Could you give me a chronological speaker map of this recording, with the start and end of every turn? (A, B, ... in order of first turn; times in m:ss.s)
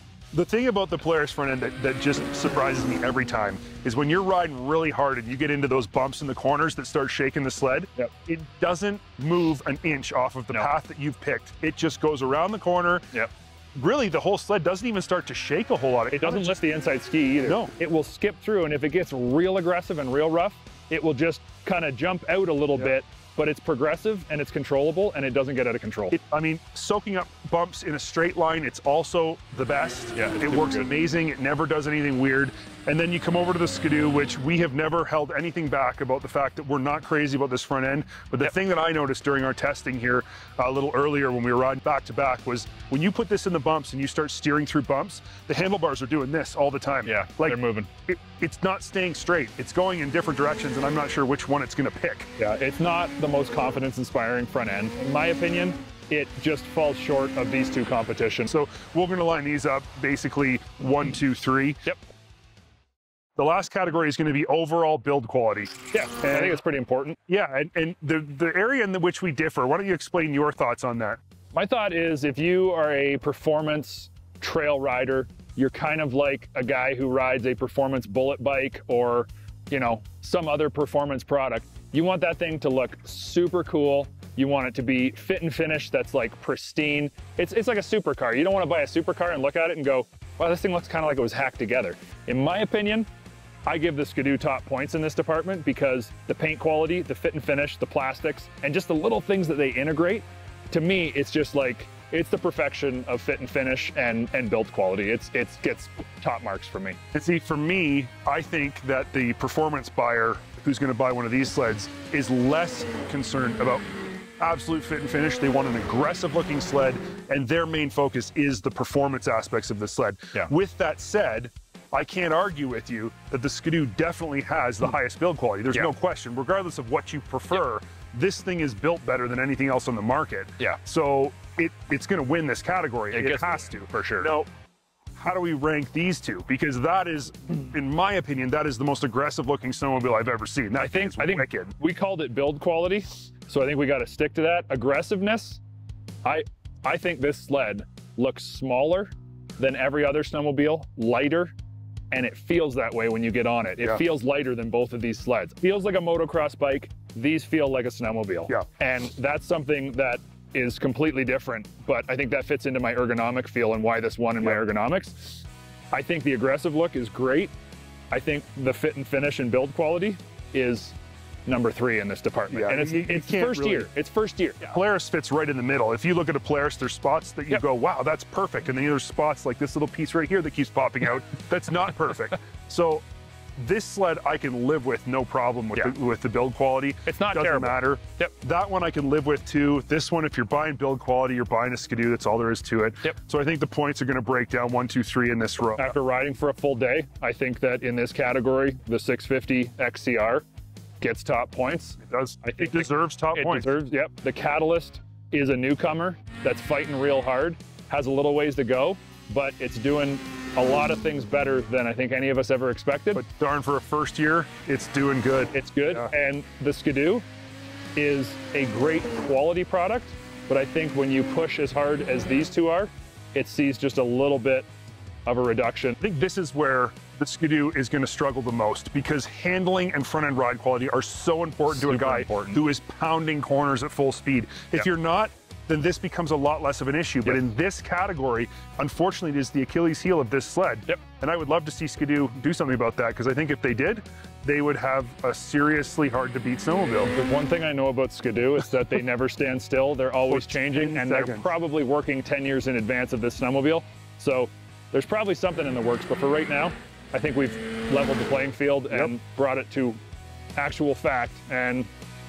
0:00.3-0:13.1 A
0:13.7-0:16.6 A
0:16.1-0:26.2 B
0:17.4-0:17.7 A
0:26.1-0:52.3 A
0:30.1-0:30.9 B
0:47.0-0:47.9 B
0:52.4-0:58.5 B
0:58.5-1:01.8 A
1:03.4-1:06.6 A
1:05.9-1:07.2 B
1:07.3-1:11.2 A
1:11.5-1:33.1 B
1:33.7-1:47.0 B
1:47.1-1:53.8 A
1:54.4-2:14.5 A
2:13.1-2:14.3 B
2:15.2-2:21.7 A
2:20.8-2:25.6 B
2:26.2-2:31.5 B
2:32.1-2:45.4 B
2:45.9-2:47.5 B
2:48.1-2:54.8 B
2:52.5-2:53.9 A
2:54.6-3:03.0 A
3:03.6-3:16.0 A
3:07.1-3:08.3 B
3:15.8-3:20.4 B
3:21.0-3:33.2 B
3:22.0-3:23.8 A
3:33.1-3:36.1 A
3:35.5-3:37.2 B
3:38.0-3:44.7 B
3:45.2-3:46.0 B
3:46.0-4:07.1 A
3:51.7-3:52.6 B
4:07.0-4:20.0 B
4:10.3-4:11.5 A
4:20.6-4:21.9 B